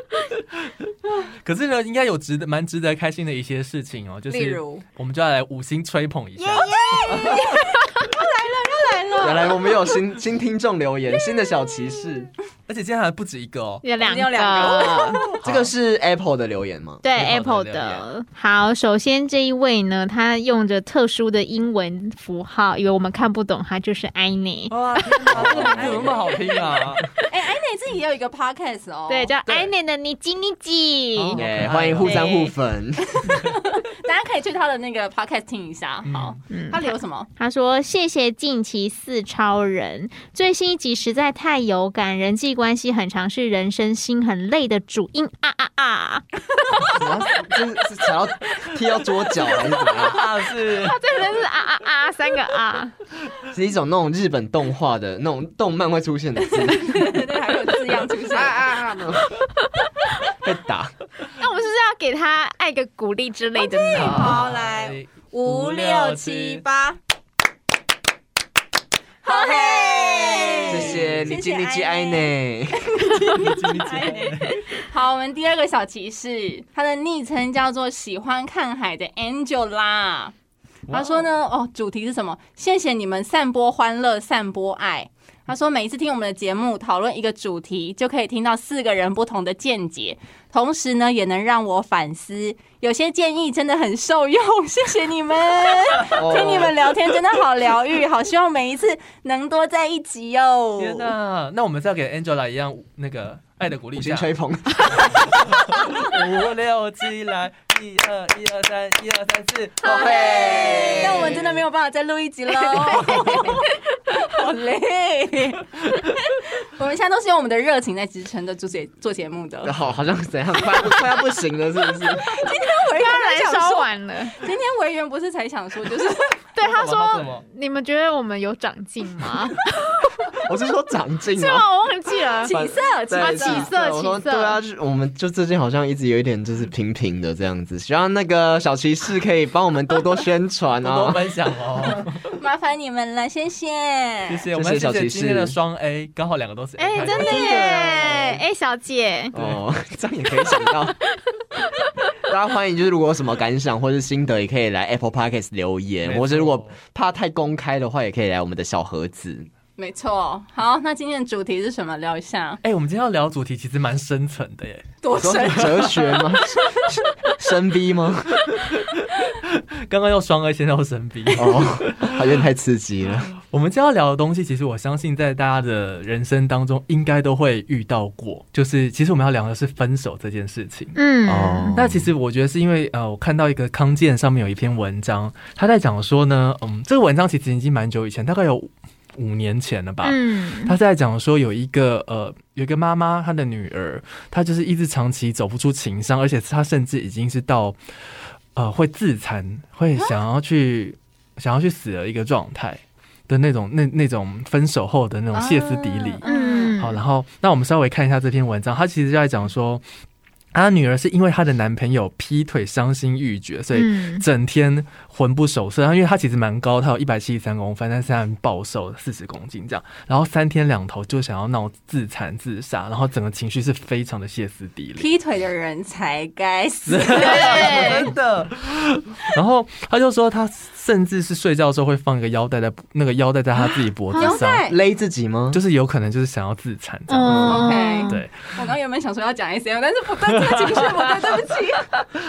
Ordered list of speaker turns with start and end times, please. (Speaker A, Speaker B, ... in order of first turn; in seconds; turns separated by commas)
Speaker A: 0.6-6.7, Speaker B: 4.3-4.8, Speaker B: 6.4-10.0, Speaker C: 6.5-7.4, Speaker D: 7.1-7.6, Speaker D: 9.2-12.3, Speaker A: 12.7-13.8, Speaker C: 13.8-15.2, Speaker B: 14.0-15.4, Speaker A: 15.3-15.7, Speaker D: 15.4-17.0, Speaker C: 17.0-25.6, Speaker A: 17.1-18.1, Speaker A: 24.7-27.1, Speaker D: 25.2-26.2, Speaker B: 25.5-29.3, Speaker C: 29.1-31.4, Speaker A: 31.1-32.3, Speaker D: 31.4-33.1, Speaker C: 32.0-32.5, Speaker B: 33.1-37.3, Speaker A: 36.0-36.4, Speaker C: 36.5-36.8, Speaker C: 37.4-46.2, Speaker D: 46.9-50.3, Speaker A: 49.9-51.0, Speaker C: 50.6-52.9, Speaker D: 53.4-57.1, Speaker B: 56.5-58.7, Speaker D: 58.3-59.3, Speaker D: 60.3-60.9, Speaker C: 61.4-64.4, Speaker B: 63.6-67.0, Speaker A: 63.9-66.6, Speaker B: 69.2-80.3, Speaker C: 69.3-70.7, Speaker D: 70.7-73.0, Speaker A: 73.3-74.6, Speaker A: 80.9-81.3, Speaker B: 80.9-101.1, Speaker D: 96.1-96.8, Speaker A: 100.8-104.3, Speaker D: 104.0-105.1, Speaker A: 104.9-110.0, Speaker D: 109.8-111.6, Speaker B: 109.9-119.8, Speaker C: 110.0-110.8, Speaker C: 112.8-113.7, Speaker D: 119.6-122.4, Speaker B: 120.7-121.1, Speaker B: 121.9-126.4, Speaker C: 122.9-124.4, Speaker C: 126.5-130.3, Speaker A: 126.6-127.4, Speaker D: 130.4-131.7, Speaker C: 131.3-132.6, Speaker B: 132.4-133.7, Speaker D: 132.5-141.3, Speaker C: 133.1-134.6, Speaker A: 140.8-142.2, Speaker B: 142.3-144.4, Speaker A: 144.3-148.2, Speaker D: 144.5-145.6, Speaker C: 146.8-149.3, Speaker B: 147.2-148.3, Speaker D: 147.2-148.1, Speaker D: 149.3-150.9, Speaker C: 150.4-150.8, Speaker D: 152.3-159.5, Speaker A: 156.0-156.8, Speaker B: 159.8-162.6, Speaker A: 162.6-164.9, Speaker B: 165.0-166.8, Speaker D: 165.2-168.4, Speaker A: 165.4-165.8, Speaker A: 168.4-172.4, Speaker D: 171.3-173.3, Speaker A: 173.3-180.9, Speaker C: 180.9-181.8, Speaker D: 181.2-182.1, Speaker A: 181.7-197.8, Speaker C: 190.0-190.8, Speaker A: 198.5-206.2, Speaker B: 205.3-206.8, Speaker C: 206.2-207.0, Speaker A: 206.8-209.8, Speaker A: 210.5-225.1, Speaker C: 213.7-214.2, Speaker B: 225.0-228.0, Speaker A: 226.9-234.6, Speaker C: 227.1-228.1, Speaker C: 234.1-234.4, Speaker B: 234.2-234.8, Speaker D: 234.7-235.6, Speaker A: 235.5-238.7, Speaker C: 237.1-238.2, Speaker D: 237.2-237.6, Speaker B: 237.4-241.9, Speaker A: 240.3-241.4